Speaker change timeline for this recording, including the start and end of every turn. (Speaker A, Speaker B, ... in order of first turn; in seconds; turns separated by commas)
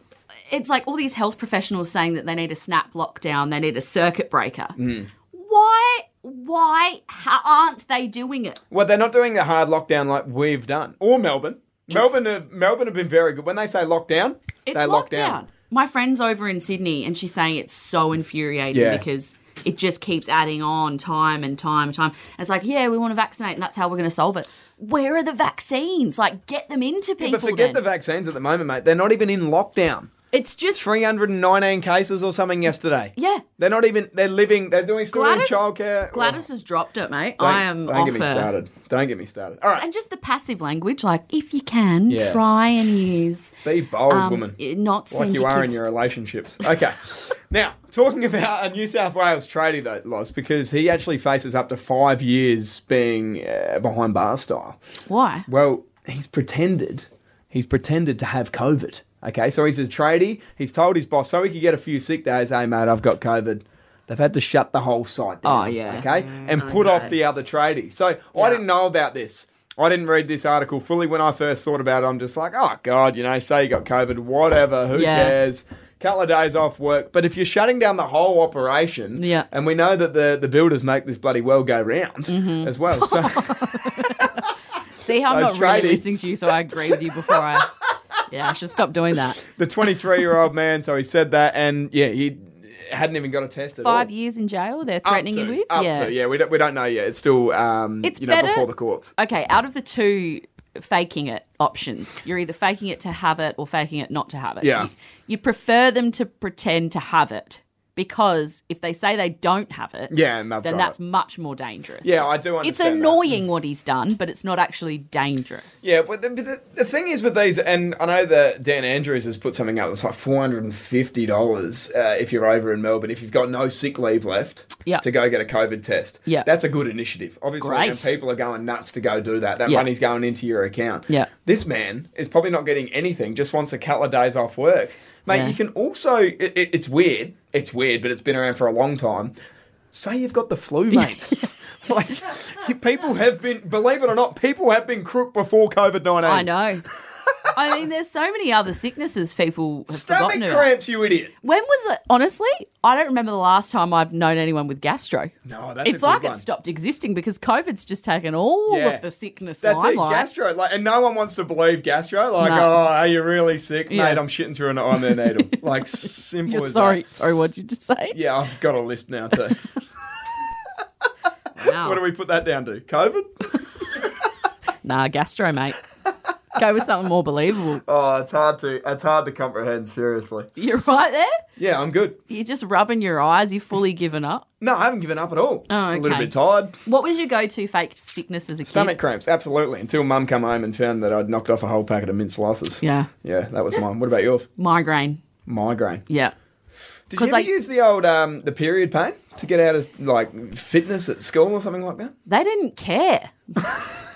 Speaker A: 0.5-4.8, Speaker B: 4.8-5.1, Speaker A: 5.3-8.6, Speaker B: 8.7-15.4, Speaker A: 14.7-27.8, Speaker B: 18.7-19.1, Speaker B: 27.2-30.1, Speaker A: 30.3-30.9, Speaker B: 30.7-36.4, Speaker A: 33.2-33.5, Speaker A: 35.1-38.5, Speaker B: 37.4-39.9, Speaker A: 39.8-43.5, Speaker B: 42.1-42.4, Speaker B: 43.6-44.6, Speaker A: 44.1-45.9, Speaker B: 45.1-54.8, Speaker A: 55.1-55.5, Speaker B: 55.5-84.3, Speaker A: 65.4-67.2, Speaker A: 68.3-68.6, Speaker A: 74.9-75.4, Speaker A: 79.2-79.5, Speaker A: 82.3-87.7, Speaker B: 85.3-87.6, Speaker A: 88.3-89.4, Speaker B: 89.4-94.1, Speaker A: 93.8-96.1, Speaker B: 95.0-99.1, Speaker A: 98.0-115.8, Speaker B: 104.6-104.9, Speaker B: 110.1-111.0, Speaker B: 112.0-113.3, Speaker B: 115.8-139.3, Speaker A: 127.6-128.1, Speaker A: 135.3-135.6, Speaker B: 139.9-146.5, Speaker A: 140.9-141.5, Speaker A: 146.2-146.9, Speaker A: 147.5-150.7, Speaker B: 149.9-151.3, Speaker A: 151.4-155.3, Speaker B: 155.4-156.4, Speaker A: 155.8-160.3, Speaker B: 158.7-159.0, Speaker B: 159.6-167.0, Speaker A: 162.4-162.8, Speaker A: 163.9-164.2, Speaker A: 164.9-165.6, Speaker A: 166.4-168.2, Speaker B: 168.1-169.6, Speaker A: 171.6-172.0, Speaker B: 171.8-173.3, Speaker A: 174.8-175.8, Speaker A: 176.6-177.8, Speaker B: 177.8-180.5, Speaker A: 180.6-181.4, Speaker B: 181.6-182.2, Speaker A: 182.3-184.5, Speaker B: 184.6-186.8, Speaker A: 185.7-188.9, Speaker B: 188.7-194.5, Speaker A: 192.8-193.1, Speaker A: 194.6-195.2, Speaker B: 195.5-196.0, Speaker A: 196.1-196.3, Speaker B: 197.1-202.2, Speaker A: 197.1-197.5, Speaker A: 202.3-203.8